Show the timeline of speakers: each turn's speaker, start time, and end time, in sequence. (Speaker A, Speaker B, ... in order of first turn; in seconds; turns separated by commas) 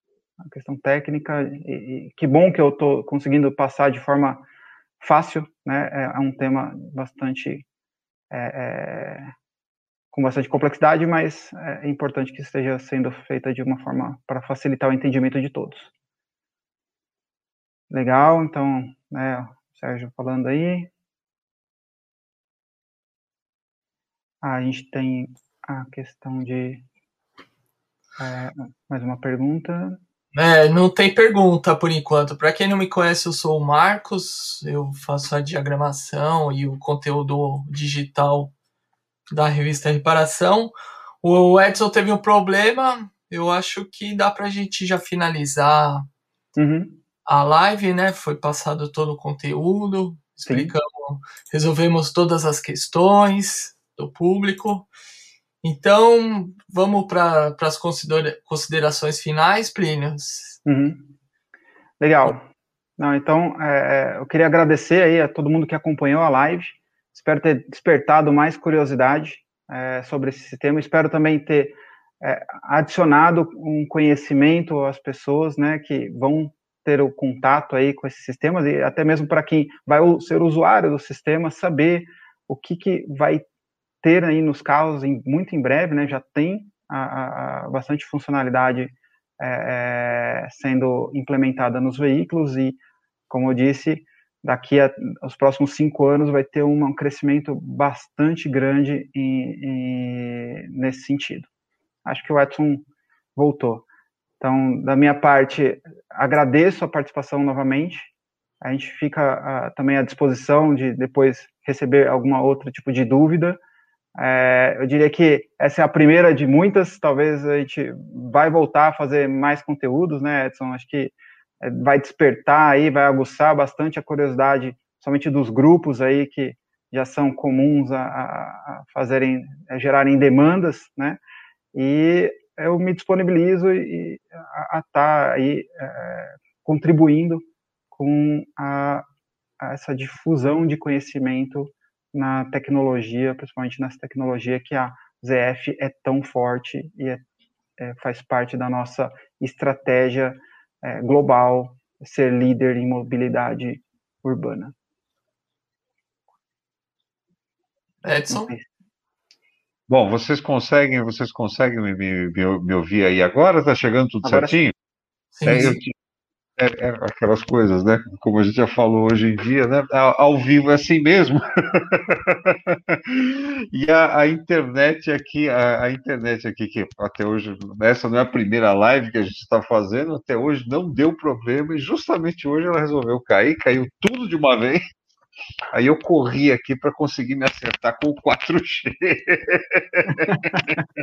Speaker A: 0.4-4.4, Speaker A: 5.0-7.6, Speaker A: 8.3-9.3, Speaker A: 10.1-15.9, Speaker A: 17.9-20.9, Speaker A: 24.4-26.8, Speaker A: 28.2-30.0, Speaker B: 30.3-38.5, Speaker B: 39.3-46.1, Speaker A: 46.5-47.0, Speaker B: 47.2-54.9, Speaker A: 50.5-50.7, Speaker B: 55.6-60.6, Speaker A: 60.6-61.1, Speaker A: 62.0-62.4, Speaker A: 63.0-83.4, Speaker A: 84.0-92.8, Speaker A: 93.3-101.5, Speaker A: 102.0-102.8, Speaker A: 103.3-103.8, Speaker A: 104.4-108.1, Speaker A: 108.6-113.6, Speaker A: 114.2-131.2, Speaker A: 131.7-139.0, Speaker A: 139.6-147.2, Speaker A: 147.8-154.7, Speaker B: 158.0-158.5, Speaker A: 158.3-158.6, Speaker C: 159.9-164.7, Speaker A: 164.2-164.6, Speaker B: 165.4-165.8, Speaker C: 165.4-165.9, Speaker C: 166.6-184.8, Speaker C: 185.7-190.8, Speaker A: 190.3-190.6